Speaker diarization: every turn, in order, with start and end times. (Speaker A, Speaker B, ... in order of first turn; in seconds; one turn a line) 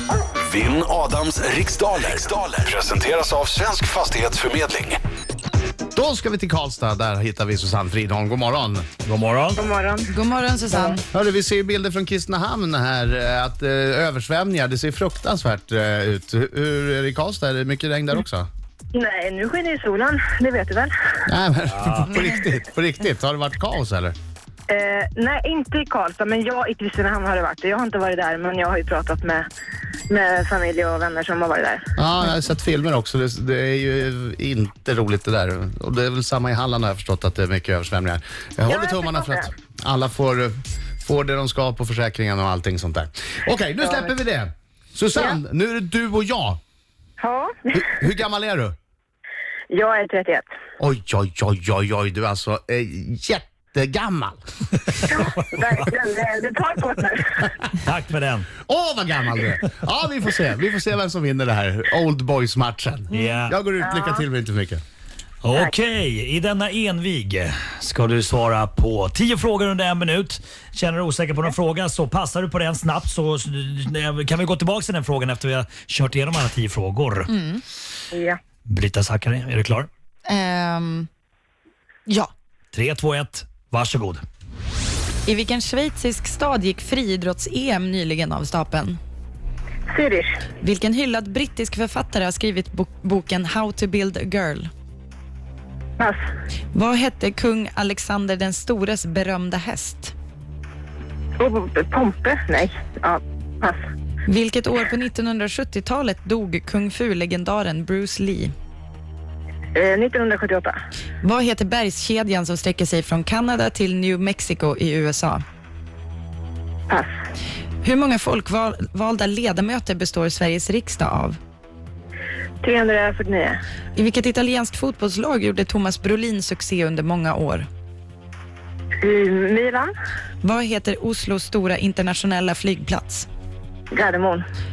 Speaker A: 0.4-5.0
Speaker B: 5.9-8.9
Speaker C: 9.0-9.6
Speaker D: 9.6-10.1
Speaker E: 10.1-11.0
Speaker B: 11.1-18.5
Speaker D: 18.9-20.9
Speaker B: 21.2-24.1
Speaker C: 21.7-22.3
Speaker D: 24.7-29.4
Speaker D: 30.1-31.9
Speaker B: 32.0-46.6
Speaker D: 38.7-39.5
Speaker D: 43.8-44.1
Speaker D: 47.2-47.8
Speaker B: 47.7-48.8
Speaker D: 49.7-50.5
Speaker B: 50.8-54.4
Speaker D: 55.0-57.5
Speaker C: 57.8-58.5
Speaker B: 58.6-64.8
Speaker C: 63.1-63.5
Speaker D: 63.8-64.2
Speaker C: 65.4-77.3
Speaker E: 77.3-77.6
Speaker D: 78.1-78.4
Speaker C: 78.7-79.9
Speaker E: 80.3-81.1
Speaker C: 82.7-84.2
Speaker E: 85.2-89.0
Speaker D: 89.9-90.3
Speaker E: 90.6-94.7
Speaker E: 96.7-100.1
Speaker D: 101.4-103.8
Speaker E: 104.2-108.5
Speaker D: 109.7-110.7
Speaker E: 111.2-115.4
Speaker E: 117.8-121.4
Speaker D: 122.6-123.6
Speaker E: 123.9-127.7
Speaker D: 129.0-129.9
Speaker E: 130.4-133.3
Speaker D: 133.9-134.4